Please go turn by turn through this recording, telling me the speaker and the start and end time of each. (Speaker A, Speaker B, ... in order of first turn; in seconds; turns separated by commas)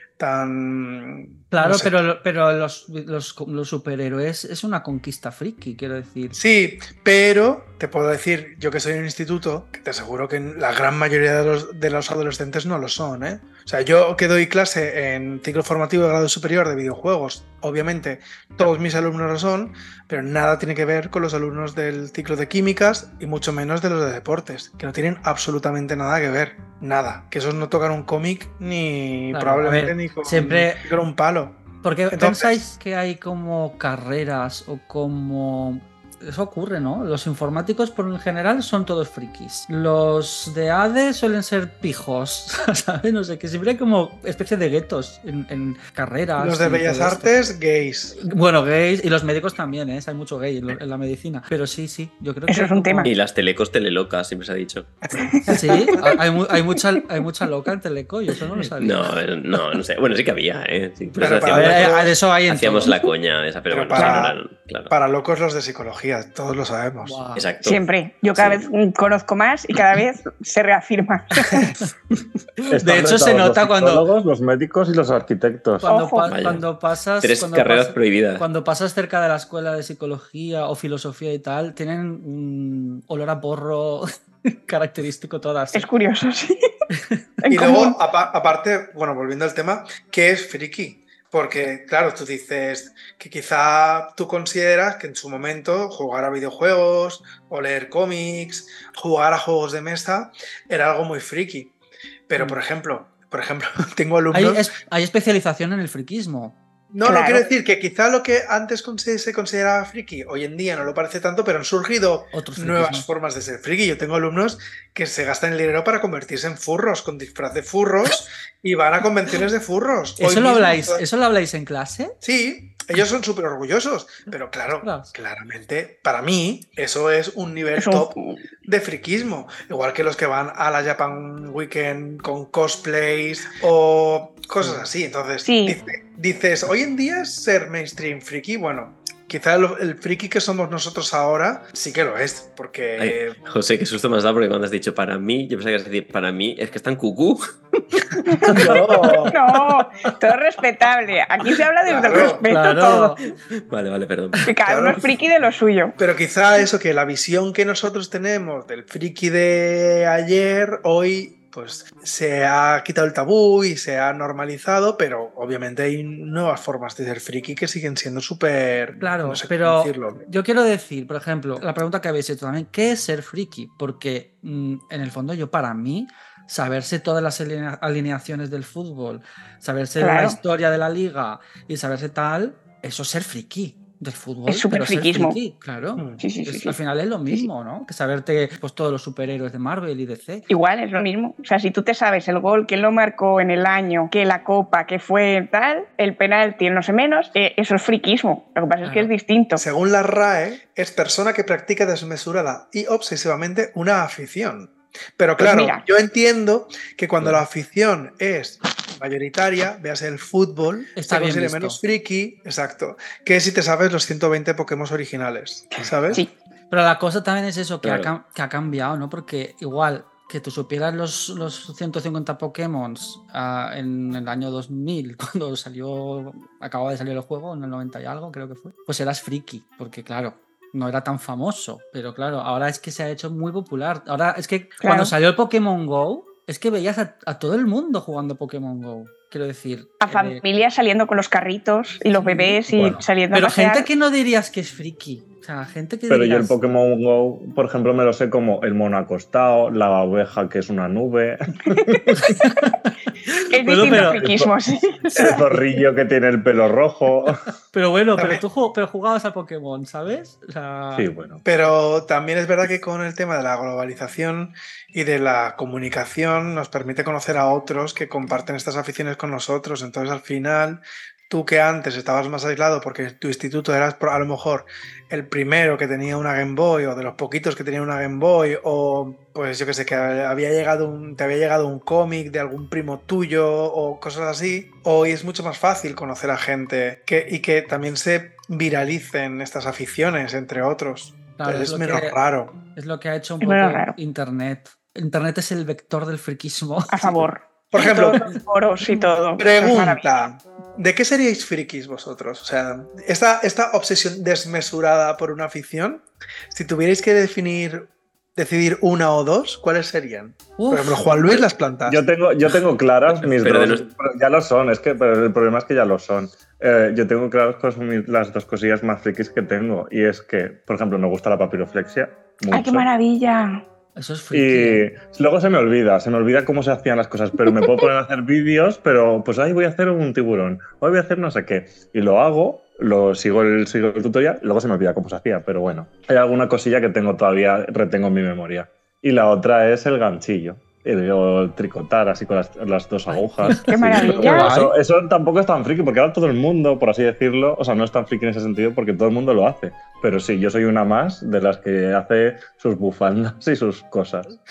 Speaker A: 0.2-2.0, Speaker B: 1.5-6.4, Speaker A: 6.3-32.5, Speaker B: 29.3-30.9, Speaker B: 31.8-47.3, Speaker A: 46.4-48.2, Speaker B: 48.2-53.1, Speaker C: 52.5-53.1, Speaker D: 53.0-54.9, Speaker A: 55.1-56.1, Speaker C: 55.2-55.5, Speaker B: 55.5-59.1, Speaker D: 58.8-64.9, Speaker A: 61.2-62.2, Speaker B: 61.5-63.0, Speaker A: 63.7-64.4, Speaker C: 64.0-64.3, Speaker A: 64.9-67.2, Speaker B: 67.0-67.5, Speaker D: 67.3-67.8, Speaker C: 67.6-71.7, Speaker D: 68.4-68.6, Speaker B: 71.5-71.9, Speaker E: 72.7-75.8, Speaker B: 72.8-74.0, Speaker C: 75.8-76.3, Speaker B: 75.8-84.1, Speaker D: 76.3-76.7, Speaker D: 77.2-78.5, Speaker B: 84.7-85.9, Speaker C: 85.7-86.5, Speaker C: 87.5-88.0, Speaker A: 87.5-101.7, Speaker A: 102.3-104.7, Speaker B: 104.3-106.5, Speaker A: 106.9-121.0, Speaker C: 107.0-107.5, Speaker B: 112.3-113.1, Speaker B: 120.2-122.2, Speaker A: 122.2-143.4, Speaker B: 124.8-125.1, Speaker C: 127.8-128.4, Speaker B: 134.6-134.9, Speaker C: 135.4-135.8, Speaker D: 143.0-147.4, Speaker C: 148.3-148.6, Speaker A: 148.5-149.4, Speaker B: 148.6-149.2, Speaker C: 149.3-153.2, Speaker A: 151.9-152.5, Speaker B: 152.5-153.2, Speaker D: 153.7-154.5, Speaker C: 154.4-156.0, Speaker A: 154.7-155.1, Speaker A: 156.0-170.2, Speaker B: 169.0-190.5, Speaker C: 180.0-180.4, Speaker C: 184.5-185.4, Speaker A: 186.0-186.2, Speaker C: 186.2-186.8, Speaker C: 190.5-199.6, Speaker B: 198.8-199.1, Speaker A: 199.6-216.2, Speaker C: 205.4-205.8, Speaker B: 211.0-211.8, Speaker B: 216.7-240.4, Speaker D: 217.8-218.1, Speaker C: 234.8-235.1, Speaker C: 240.0-243.9, Speaker B: 242.2-246.6, Speaker E: 242.7-243.0, Speaker E: 246.1-252.2, Speaker B: 252.2-254.2, Speaker C: 253.5-255.4, Speaker E: 254.0-254.5, Speaker E: 255.1-257.4, Speaker B: 257.7-261.1, Speaker A: 258.2-258.4, Speaker E: 261.0-261.4, Speaker A: 261.4-292.6, Speaker B: 291.4-297.3, Speaker C: 293.4-294.0, Speaker C: 296.9-300.1, Speaker A: 297.7-298.4, Speaker A: 299.4-312.0, Speaker B: 310.6-311.4, Speaker E: 311.9-322.9, Speaker D: 313.1-313.9, Speaker C: 322.5-323.6, Speaker B: 323.9-324.9, Speaker E: 324.3-354.3, Speaker B: 343.1-344.7, Speaker C: 343.7-344.6